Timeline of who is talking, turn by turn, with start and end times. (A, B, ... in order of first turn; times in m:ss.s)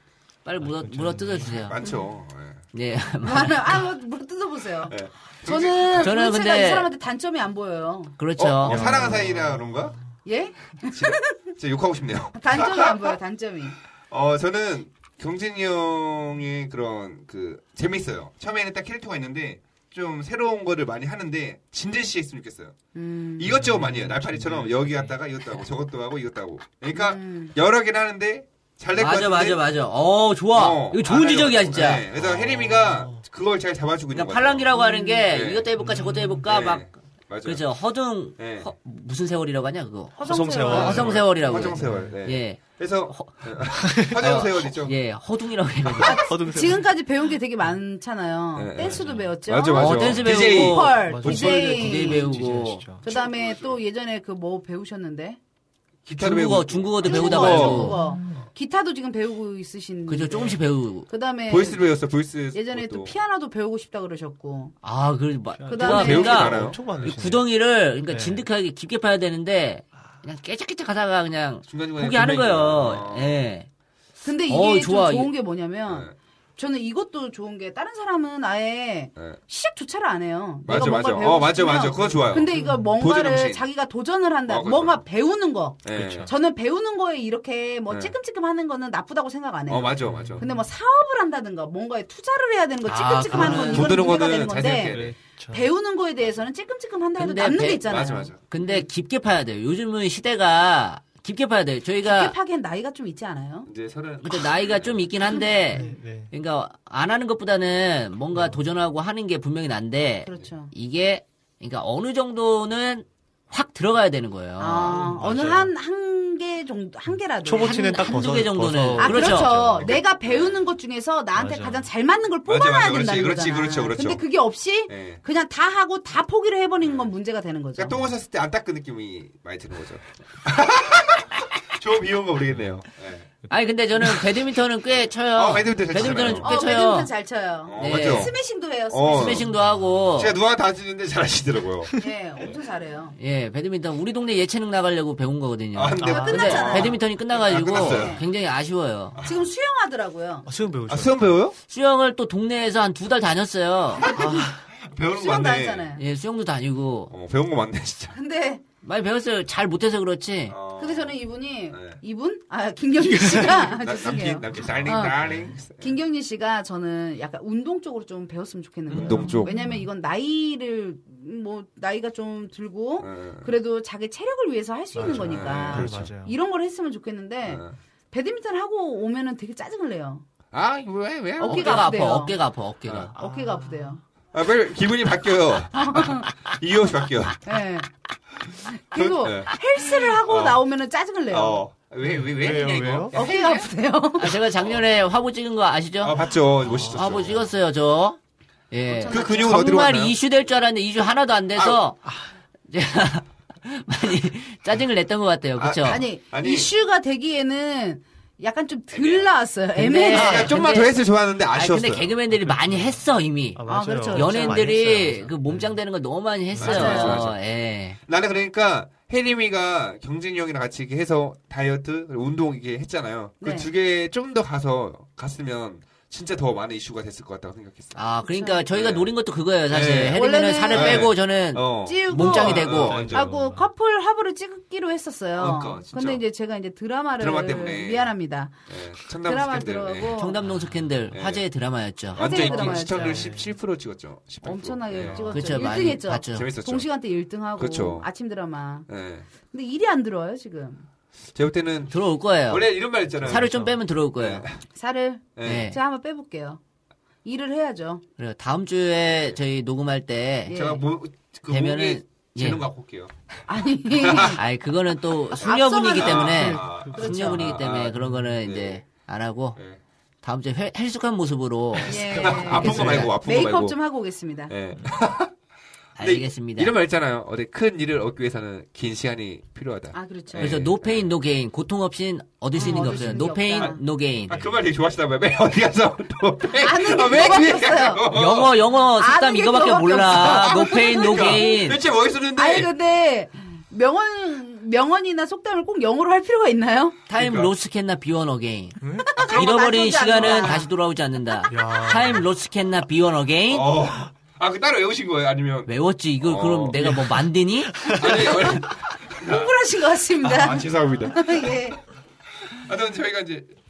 0:00.4-0:01.7 A
0:00.6-0:01.7 B
0:01.6-0:02.6 C
0:02.7-0:03.8 A
0:03.2-0:08.1 D
0:04.9-0:06.2 C
0:06.0-0:06.9 A
0:08.2-0:09.0 A
0:08.4-0:10.0 C
0:08.6-0:10.0 B
0:10.2-0:11.5 D
0:10.9-0:13.1 C
0:12.4-0:13.8 D
0:14.1-0:22.7 C
0:22.9-0:23.6 D
0:23.4-0:29.6 C
0:23.5-0:25.1 B
0:26.9-0:27.5 D
0:29.0-0:32.0 A
0:30.5-0:34.7 C
0:32.2-0:33.2 B
0:34.1-0:36.9 A
0:34.7-0:35.2 D
0:35.3-0:35.7 C
0:35.8-0:36.4 B
0:36.4-0:37.6 C
0:37.4-0:43.4 A
0:38.4-0:38.7 C
0:40.2-0:41.2 D
0:40.2-0:42.2 B
0:40.7-0:45.0 C
0:43.7-0:44.3 B
0:44.0-0:46.3 A
0:45.8-0:46.9 B
0:46.0-0:52.3 D
0:48.5-0:51.8 C
0:48.8-0:49.3 B
0:49.7-0:52.8 A
0:51.0-0:53.0 B
0:53.0-0:55.4 D
0:53.0-0:53.8 C
0:56.0-0:58.5 C
0:56.2-0:58.0 A
0:57.0-1:01.9 D
0:57.6-0:58.5 B
1:00.1-1:01.1 A
1:01.5-1:03.1 C
1:02.5-1:04.7 D
1:04.8-1:13.7 A
1:05.6-1:07.4 B
1:05.7-1:06.7 D
1:05.8-1:07.2 C
1:08.1-1:08.4 B
1:11.7-1:13.4 C
1:14.2-1:38.8 D
1:14.5-1:15.3 A
1:20.6-1:23.6 C
1:22.5-1:22.9 B
1:24.5-1:25.0 C
1:25.8-1:26.3 C
1:25.9-1:26.3 B
1:27.9-1:28.1 C
1:29.7-1:30.4 C
1:30.0-1:30.6 B
1:32.8-1:34.1 A
1:33.3-1:33.7 B
1:33.4-1:35.2 C
1:34.8-1:35.7 B
1:37.2-1:42.3 A
1:37.7-1:38.4 C
1:42.0-1:43.7 D
1:43.6-1:45.0 C
1:44.2-1:55.0 A
1:45.3-1:45.9 D
1:45.7-1:46.3 B
1:48.3-1:48.6 B
1:50.2-1:50.7 D
1:54.6-1:58.3 D
1:54.9-1:55.7 B
1:57.4-1:59.9 B
1:57.6-1:59.6 A
1:59.0-2:08.0 D
1:59.7-2:00.6 C
2:01.4-2:01.9 B
2:02.4-2:04.2 C
2:04.9-2:05.2 C
2:06.8-2:07.1 C
2:07.8-2:13.3 C
2:13.4-2:14.2 B
2:13.5-2:17.1 A
2:15.3-2:16.8 C
2:16.3-2:19.5 D
2:17.6-2:18.4 C
2:17.8-2:18.3 A
2:18.9-2:19.5 C
2:19.1-2:20.4 A
2:19.5-2:20.0 B
2:20.1-2:22.5 C
2:22.0-2:23.2 D
2:23.2-2:29.2 A
2:25.7-2:28.2 C
2:26.0-2:28.2 D
2:29.1-2:29.5 C
2:29.2-2:30.5 D
2:30.4-2:31.4 B
2:30.9-2:31.6 C
2:31.7-2:34.1 A
2:34.0-2:34.5 D
2:34.1-2:34.6 B
2:34.8-2:36.0 C
2:35.1-2:36.0 D
2:36.0-2:37.1 A
2:37.1-2:38.1 C
2:38.1-2:38.6 D
2:38.8-2:40.6 A
2:40.5-2:41.2 C
2:40.8-2:45.2 D
2:41.7-2:42.0 C
2:43.0-2:43.6 B
2:43.3-2:46.0 C
2:44.5-2:45.6 B
2:45.8-3:00.2 D
2:48.9-2:49.9 B
2:48.9-2:49.6 C
2:53.0-2:53.5 C
2:54.9-2:56.4 B
2:55.0-2:56.1 C
2:57.4-2:57.7 C
3:00.5-3:01.9 C
3:01.4-3:03.2 A
3:01.4-3:02.3 D
3:02.8-3:03.1 C
3:03.2-3:04.0 D
3:03.2-3:04.0 B
3:04.3-3:07.4 C
3:05.7-3:06.3 D
3:07.4-3:07.9 D
3:08.5-3:11.6 D
3:08.9-3:10.6 C
3:11.3-3:13.7 C
3:12.0-3:13.2 B
3:13.1-3:14.4 D
3:14.2-3:16.1 A
3:14.6-3:14.8 C
3:16.0-3:17.5 C
3:16.6-3:17.4 B
3:16.8-3:18.2 A
3:18.7-3:22.0 A
3:18.8-3:19.6 D
3:19.1-3:20.2 C
3:21.6-3:21.8 C
3:22.7-3:26.1 A
3:25.6-3:26.7 C
3:25.8-3:30.6 D
3:28.9-3:29.3 C
3:29.8-3:30.9 A
3:30.0-3:32.1 C
3:31.5-3:38.0 A
3:32.3-3:33.0 B
3:33.5-3:35.8 B
3:33.7-3:34.9 D
3:36.5-3:37.3 B
3:36.5-3:37.3 C
3:36.6-3:37.2 D
3:38.0-3:48.0 C
3:43.4-3:43.7 D
3:47.9-3:53.0 A
3:48.2-3:48.6 D
3:48.7-3:49.1 C
3:49.7-3:53.3 C
3:50.1-3:51.1 D
3:51.8-3:58.5 D
3:52.8-3:53.7 B
3:55.4-3:56.2 C
3:57.2-3:58.1 C
3:58.7-4:00.2 C
3:59.2-4:00.4 D
4:00.1-4:02.3 A
4:00.4-4:01.0 B
4:01.1-4:01.4 C
4:02.1-4:05.4 C
4:02.2-4:03.4 D
4:02.4-4:03.5 B
4:04.4-4:08.9 D
4:05.1-4:05.4 B
4:05.3-4:06.5 A
4:06.3-4:06.9 C
4:07.6-4:08.1 C
4:08.9-4:09.3 C
4:09.5-4:10.8 D
4:11.3-4:14.6 C
4:11.9-4:14.4 A
4:13.2-4:13.7 B
4:14.7-4:16.6 D
4:15.4-4:15.7 C
4:15.4-4:15.8 A
4:17.2-4:18.0 D
4:18.2-4:20.6 A
4:20.4-4:20.8 D
4:20.5-4:23.1 C
4:21.5-4:22.6 A
4:23.5-4:24.4 D
4:24.0-4:24.4 C
4:24.4-4:29.6 A
4:25.4-4:27.6 D
4:26.0-4:28.8 C
4:26.2-4:28.4 B
4:30.2-4:33.1 A
4:31.8-4:34.5 D
4:32.1-4:33.8 C
4:32.1-4:33.1 B
4:34.5-4:35.3 C
4:36.0-4:36.7 A
4:36.0-4:41.1 C
4:39.9-4:40.6 D
4:40.4-4:44.4 A
4:42.5-4:43.8 D
4:42.7-4:43.3 B
4:44.3-4:48.6 C
4:44.3-4:44.6 B
4:46.6-4:48.0 D
4:48.1-4:51.8 A
4:49.0-4:51.6 D
4:50.1-4:52.7 C
4:52.4-4:57.0 D
4:57.1-5:03.8 A
4:57.1-4:57.5 C
4:58.8-4:59.2 B
4:59.0-5:00.7 D
5:00.2-5:00.5 C
5:01.5-5:02.3 B
5:03.5-5:06.8 C
5:05.7-5:08.4 A
5:06.8-5:08.5 B
5:07.8-5:09.5 C
5:08.2-5:08.7 D
5:09.2-5:11.8 D
5:10.2-5:11.6 C
5:12.5-5:13.5 C